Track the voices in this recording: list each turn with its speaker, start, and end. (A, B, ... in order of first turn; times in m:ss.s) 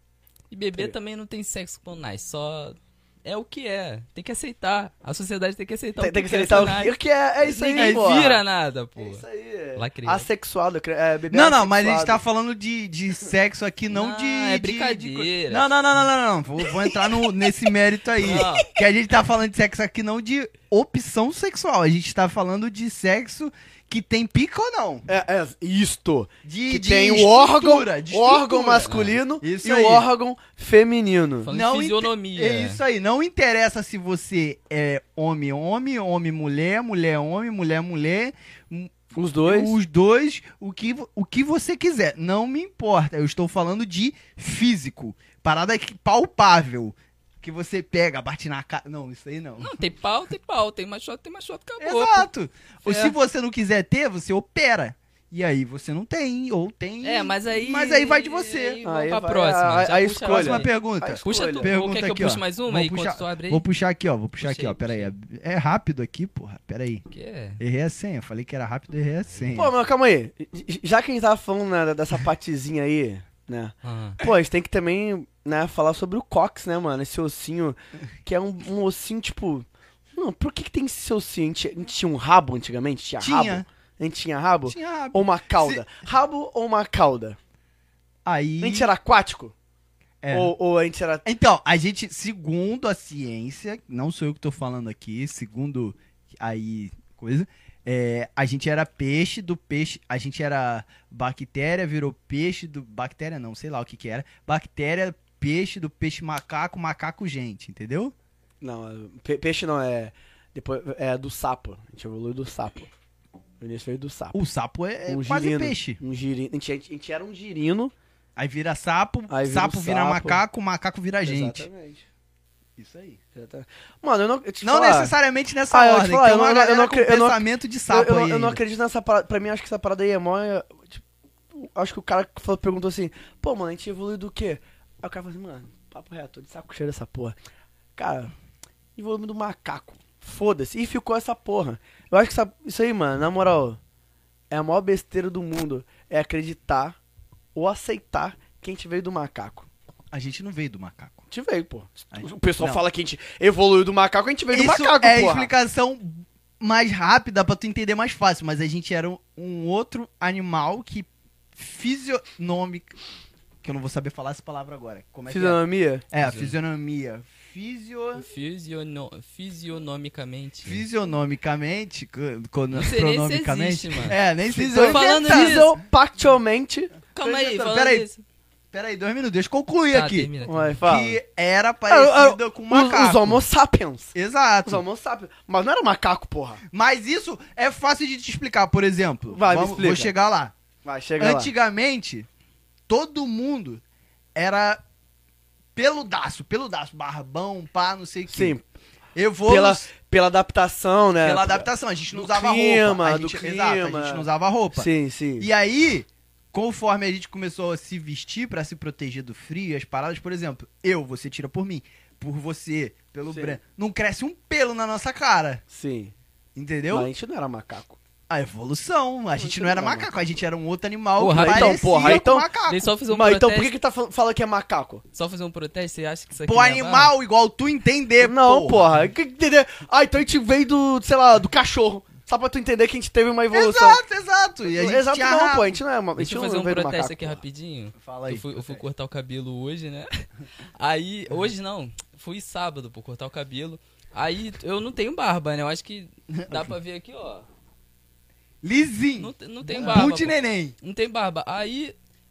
0:00.5-0:09.2 A
0:06.0-0:08.4 B
0:07.8-0:08.3 C
0:09.0-0:12.2 B
0:09.8-0:10.3 A
0:11.3-0:25.0 C
0:13.9-0:15.7 A
0:18.2-0:18.7 A
0:25.1-0:31.5 B
0:26.4-0:30.1 C
0:28.9-0:29.1 A
0:31.4-0:32.8 A
0:31.5-0:49.8 C
0:39.1-0:39.8 B
0:49.6-0:52.3 A
0:51.8-0:58.8 C
0:52.8-0:53.1 A
0:57.0-1:00.7 A
0:58.8-1:01.7 B
1:00.2-1:07.0 C
1:01.2-1:03.6 A
1:04.4-1:05.1 A
1:07.1-1:07.6 A
1:07.6-1:09.7 C
1:09.5-1:27.4 B
1:13.8-1:14.2 A
1:23.2-1:23.6 C
1:24.7-1:25.8 C
1:28.2-1:28.9 C
1:28.6-1:29.5 B
1:30.2-1:30.5 C
1:30.3-1:31.2 B
1:31.2-1:48.1 C
1:48.6-1:52.9 B
1:53.6-1:54.4 B
1:54.3-1:56.0 C
1:55.1-1:57.9 B
1:58.4-2:01.7 C
1:59.3-2:00.4 B
2:01.2-2:02.0 B
2:02.8-2:03.2 C
2:03.3-2:05.1 B
2:04.6-2:08.6 C
2:05.7-2:11.0 B
2:11.5-2:17.4 B
2:18.0-2:18.3 B
2:19.0-2:23.8 B
2:24.5-2:27.0 B
2:27.5-2:29.7 B
2:30.1-2:31.2 C
2:31.3-2:35.5 B
2:32.1-2:32.8 C
2:34.5-2:42.9 C
2:43.6-2:48.2 C
2:45.3-2:46.0 B
2:46.2-2:46.5 A
2:48.2-2:50.8 A
2:50.6-2:55.7 C
2:52.7-2:54.2 A
2:54.5-2:57.0 B
2:54.8-2:55.7 A
2:57.1-2:58.2 A
2:57.2-2:58.0 C
2:58.7-3:00.3 C
2:59.9-3:00.8 A
3:00.4-3:01.2 B
3:00.8-3:03.4 C
3:01.9-3:04.1 B
3:04.1-3:04.8 C
3:04.6-3:06.6 B
3:06.7-3:10.5 C
3:09.3-3:10.1 B
3:10.8-3:11.5 B
3:11.2-3:12.3 C
3:12.9-3:13.8 C
3:14.3-3:14.8 C
3:15.8-3:18.6 C
3:18.3-3:18.6 B
3:19.1-3:19.9 C
3:19.4-3:25.5 B
3:21.2-3:24.9 C
3:25.4-3:35.6 C
3:33.3-3:33.6 B
3:35.7-3:36.1 B
3:36.6-3:37.1 C
3:36.9-3:38.0 B
3:38.3-3:42.9 C
3:39.4-3:40.1 B
3:41.2-3:43.7 A
3:41.3-3:42.5 B
3:43.1-3:45.0 B
3:45.1-3:47.1 A
3:46.4-3:48.9 C
3:48.2-3:54.0 B
3:53.5-3:55.8 C
3:54.7-3:57.4 B
3:56.2-4:00.1 A
3:58.0-3:58.8 C
4:00.8-4:07.5 A
4:06.4-4:06.7 C
4:08.6-4:10.7 C
4:09.2-4:11.9 A